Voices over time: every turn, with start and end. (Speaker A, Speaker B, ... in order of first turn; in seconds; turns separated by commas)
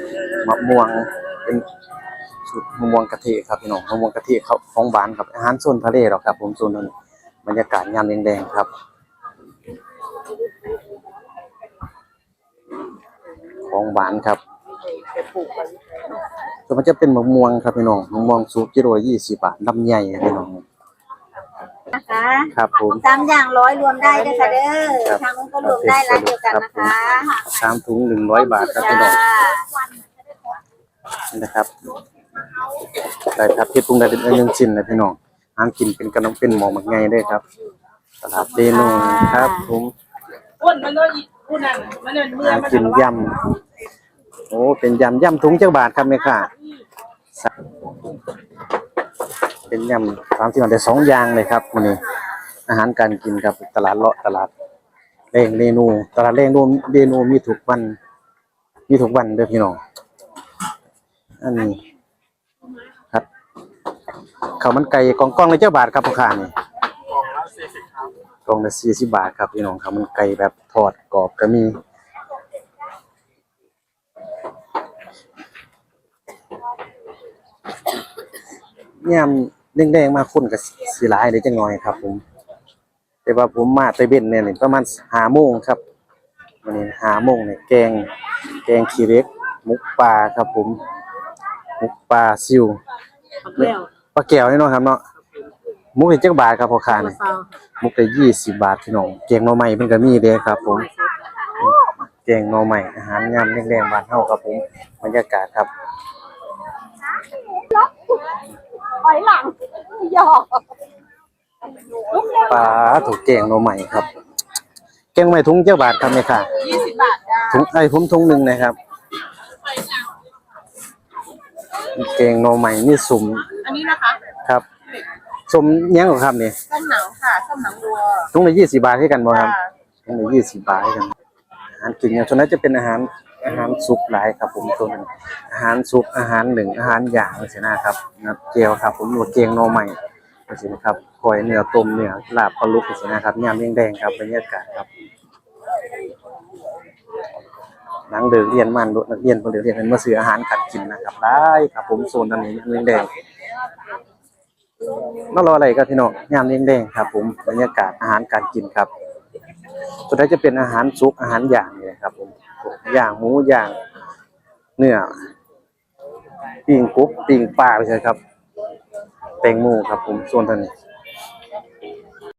Speaker A: 0.3-1.7, Speaker A: 2.5-6.9, Speaker A: 7.4-8.7, Speaker A: 13.6-14.4, Speaker A: 16.7-20.6, Speaker B: 21.9-27.4, Speaker A: 22.5-23.0, Speaker A: 25.0-29.2, Speaker B: 29.0-29.7, Speaker A: 31.3-31.7, Speaker A: 33.0-37.4, Speaker A: 38.2-39.9, Speaker B: 38.8-39.7, Speaker C: 40.6-42.3, Speaker A: 42.2-43.5, Speaker A: 44.5-46.5, Speaker A: 49.7-52.0, Speaker A: 52.7-54.5, Speaker A: 55.3-58.0, Speaker A: 58.9-59.8, Speaker A: 61.4-61.8, Speaker A: 64.6-66.5, Speaker A: 68.5-71.8, Speaker A: 79.0-82.2, Speaker A: 83.2-85.8, Speaker A: 86.6-90.8, Speaker A: 91.8-92.8, Speaker A: 93.5-95.0, Speaker A: 95.9-100.9, Speaker A: 101.6-105.7, Speaker C: 109.0-110.7, Speaker A: 112.2-114.1, Speaker A: 115.1-118.8, Speaker C: 116.8-117.4, Speaker A: 121.8-123.6, Speaker C: 123.6-124.2, Speaker A: 124.3-124.6, Speaker A: 125.5-126.7, Speaker C: 126.7-128.1, Speaker A: 128.1-131.1, Speaker A: 131.8-140.0, Speaker A: 140.5-144.9, Speaker A: 148.1-153.1, Speaker A: 155.2-158.9, Speaker A: 160.1-163.7, Speaker A: 164.8-165.2, Speaker A: 166.7-168.2, Speaker A: 169.4-170.7